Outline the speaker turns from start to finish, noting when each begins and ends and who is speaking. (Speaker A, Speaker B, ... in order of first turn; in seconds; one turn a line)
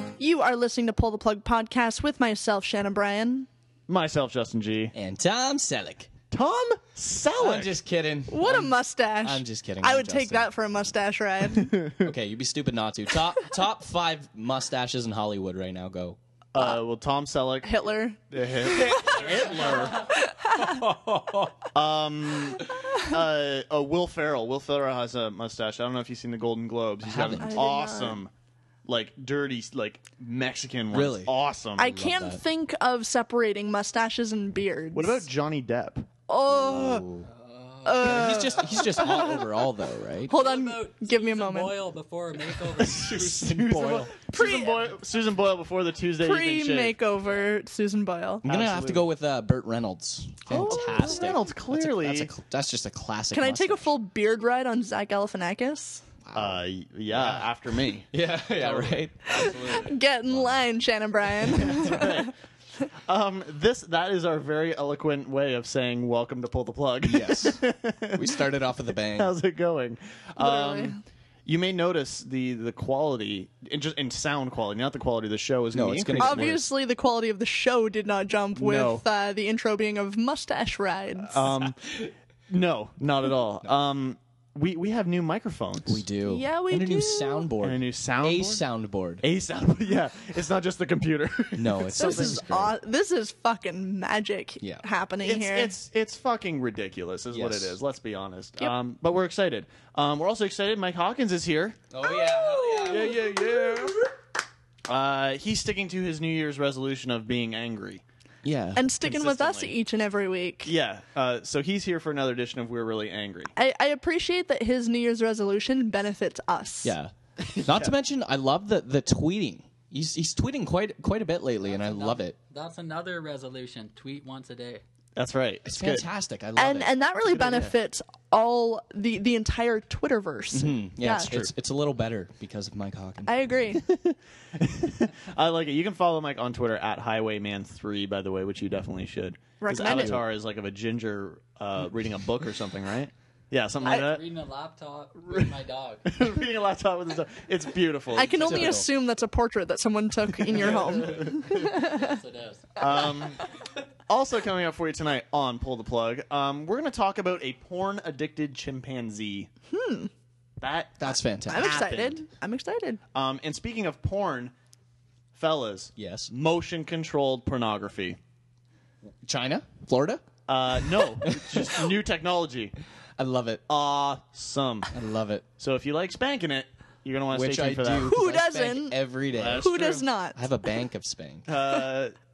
Speaker A: 0.2-3.5
Speaker B: 3.9-4.9
Speaker C: 4.9-6.1
Speaker B: 6.3-7.8
Speaker C: 7.4-10.5
Speaker A: 8.3-11.8
Speaker B: 11.6-12.1
Speaker C: 12.0-16.2
Speaker B: 16.5-20.1
Speaker A: 17.6-18.2
Speaker A: 20.2-20.7
Speaker B: 21.6-28.3
Speaker C: 27.0-27.6
Speaker A: 27.4-28.2
Speaker B: 28.9-31.9
Speaker C: 30.9-32.4
Speaker A: 31.8-35.2
Speaker B: 34.9-36.1
Speaker A: 36.3-37.1
Speaker C: 36.5-37.3
Speaker D: 37.4-38.0
Speaker A: 37.8-39.4
Speaker C: 38.0-40.4
Speaker A: 40.3-41.8
Speaker D: 40.3-43.7
Speaker B: 42.6-47.0
Speaker C: 43.2-44.1
Speaker A: 44.3-44.8
Speaker A: 46.2-48.5
Speaker B: 48.4-49.1
Speaker C: 48.5-53.9
Speaker B: 50.5-52.3
Speaker A: 53.3-56.0
Speaker C: 56.2-56.6
Speaker B: 56.3-59.0
Speaker C: 57.1-60.6
Speaker A: 59.3-62.3
Speaker C: 61.6-62.0
Speaker B: 61.6-62.3
Speaker B: 63.1-68.4
Speaker C: 67.0-69.3
Speaker B: 69.1-76.6
Speaker A: 70.4-71.0
Speaker C: 75.7-76.6
Speaker A: 76.2-81.4
Speaker B: 78.5-79.0
Speaker B: 81.3-81.8
Speaker B: 82.5-86.0
Speaker C: 85.8-89.2
Speaker A: 86.2-87.5
Speaker B: 87.6-88.7
Speaker B: 89.2-92.4
Speaker C: 91.5-92.8
Speaker A: 92.0-95.7
Speaker C: 94.6-94.8
Speaker B: 95.2-101.8
Speaker C: 97.3-97.8
Speaker C: 101.9-103.3
Speaker A: 102.6-103.3
Speaker B: 102.8-103.9
Speaker B: 104.9-108.0
Speaker C: 108.4-108.8
Speaker A: 108.8-110.7
Speaker B: 109.0-109.7
Speaker B: 110.6-113.5
Speaker A: 113.5-117.0
Speaker C: 116.8-122.3
Speaker B: 117.5-118.0
Speaker D: 121.7-124.8
Speaker B: 125.2-126.1
Speaker C: 125.7-127.7
Speaker A: 126.5-131.4
Speaker C: 130.5-133.5
Speaker A: 133.2-133.8
Speaker B: 133.9-144.3
Speaker A: 139.6-140.2
Speaker C: 139.7-140.2
Speaker D: 143.8-146.0
Speaker B: 145.2-148.9
Speaker A: 148.1-152.2
Speaker C: 148.3-148.9
Speaker B: 150.4-151.8
Speaker D: 151.9-152.6
Speaker B: 152.8-153.4
Speaker B: 154.1-159.5
Speaker A: 159.7-160.1
Speaker B: 160.6-162.2
Speaker C: 161.0-161.9
Speaker A: 161.5-163.0
Speaker B: 163.1-164.5
Speaker B: 165.3-168.2
Speaker C: 166.0-166.3
Speaker C: 169.2-170.2
Speaker B: 170.5-172.7
Speaker C: 171.0-171.9
Speaker C: 173.2-173.6
Speaker B: 173.7-174.9
Speaker C: 174.9-175.4
Speaker B: 175.6-178.1
Speaker C: 177.3-179.7
Speaker A: 178.0-180.4
Speaker B: 179.3-180.1
Speaker C: 180.3-181.5
Speaker B: 181.5-182.1